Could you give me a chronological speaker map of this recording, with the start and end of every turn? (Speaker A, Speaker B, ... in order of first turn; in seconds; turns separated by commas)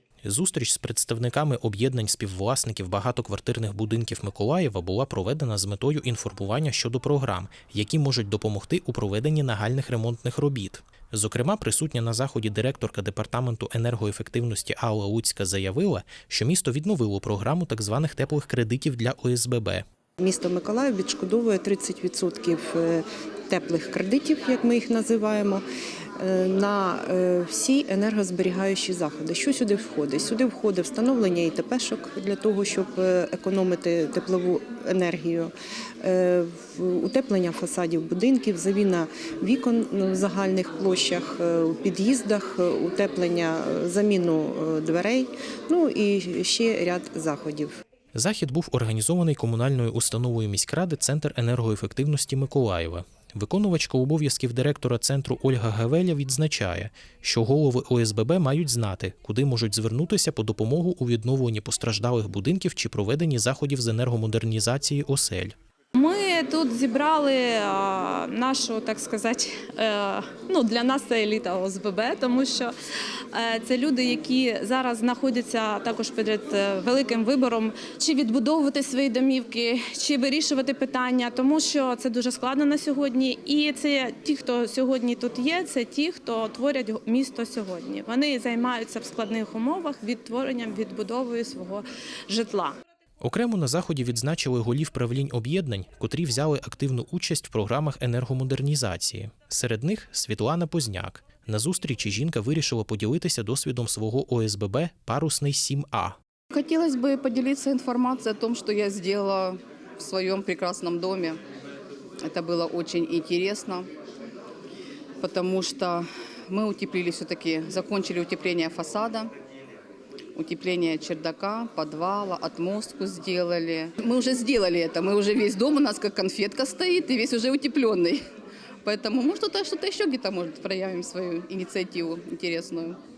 Speaker A: 0.2-19.9, Speaker B: 20.2-25.6, Speaker B: 26.2-35.5, Speaker B: 36.0-47.7, Speaker A: 48.1-65.6, Speaker C: 66.0-72.7, Speaker C: 73.3-92.8, Speaker A: 93.2-106.2, Speaker D: 106.6-111.4, Speaker D: 112.3-113.8, Speaker D: 115.2-119.3, Speaker D: 120.4-128.2, Speaker D: 128.9-132.9